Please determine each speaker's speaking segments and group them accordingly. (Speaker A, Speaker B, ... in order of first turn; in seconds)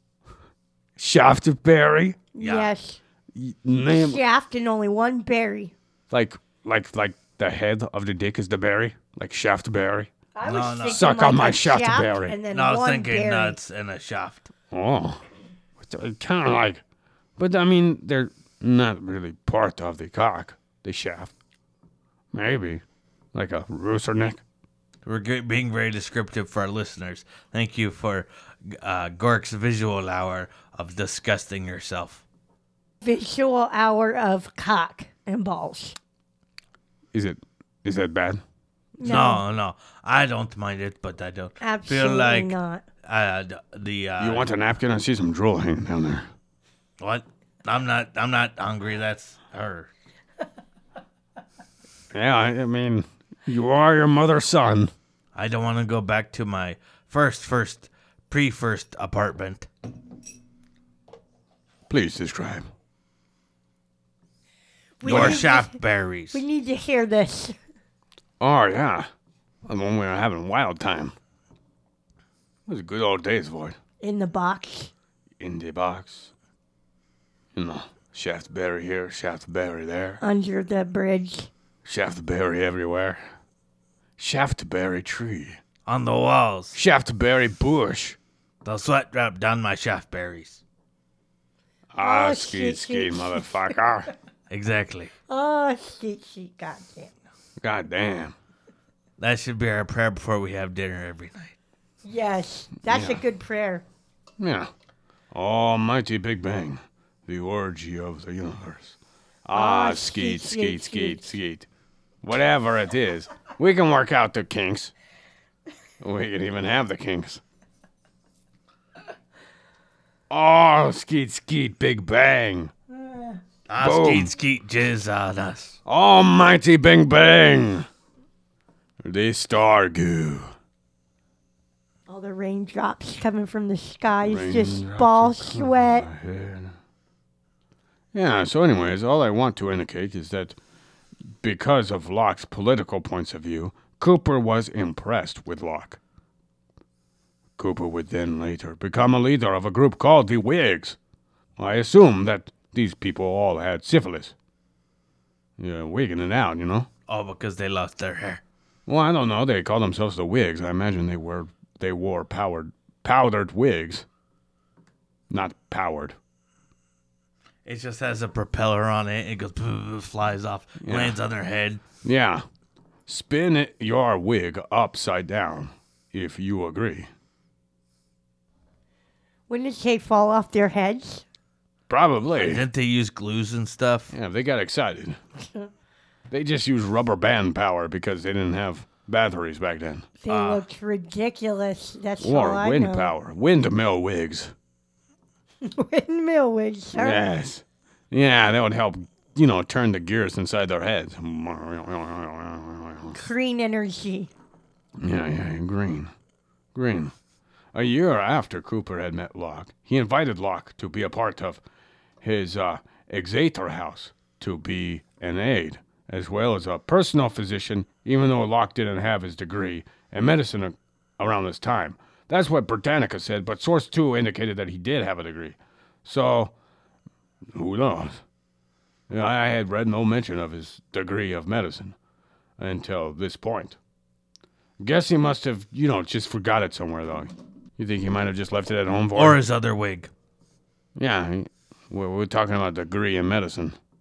Speaker A: 1.0-2.2, 3.3-4.2, 6.1-10.1, 10.9-12.4, 14.7-15.2, 15.8-16.8, 17.4-21.3, 22.3-22.8, 23.3-24.4, 37.1-38.4, 44.2-46.3, 52.1-54.9, 61.9-62.7, 65.0-65.4, 68.4-69.1, 69.6-71.1, 72.7-73.8, 75.4-76.3, 77.5-80.2, 81.8-83.2, 84.2-85.6, 86.7-88.2, 91.9-94.1, 97.6-98.3, 102.9-103.2, 104.4-104.7, 105.3-111.7, 112.2-114.9, 116.0-117.4, 120.3-122.7, 123.8-124.3, 125.9-127.9, 129.0-130.5, 134.2-136.8, 138.1-140.6, 141.4-146.0, 147.6-151.0, 151.6-154.3, 155.6-156.9, 158.9-164.1, 165.3-166.2, 170.8-171.2, 172.0-172.4, 173.1-177.1, 181.9-182.6, 184.1-185.2, 186.3-190.1, 192.2-194.5, 196.9-203.2, 205.0-206.1, 206.7-207.1, 207.7-211.6, 212.2-226.5, 227.5-228.2, 229.1-231.9, 232.6-233.8, 234.8-239.4, 240.9-243.8
Speaker B: 2.3-3.0, 3.9-5.7, 10.3-13.6, 33.0-36.0, 39.0-39.4, 41.6-42.8, 65.0-65.8, 66.3-67.5, 74.0-74.9, 80.2-81.5, 92.0-93.7, 95.3-97.1, 102.0-103.8, 109.5-111.2, 132.1-136.1, 179.5-181.2, 190.2-193.1, 195.6-197.2, 203.1-204.3
Speaker C: 2.4-2.7, 10.4-11.1, 12.5-14.5, 25.0-32.2, 39.0-44.5, 47.0-49.9, 55.3-59.7, 65.0-66.4, 85.9-86.8, 88.6-90.6, 94.5-95.1, 99.2-101.5, 123.7-125.8, 157.1-158.4, 167.6-171.8, 182.4-184.1, 190.3-190.6, 239.1-240.1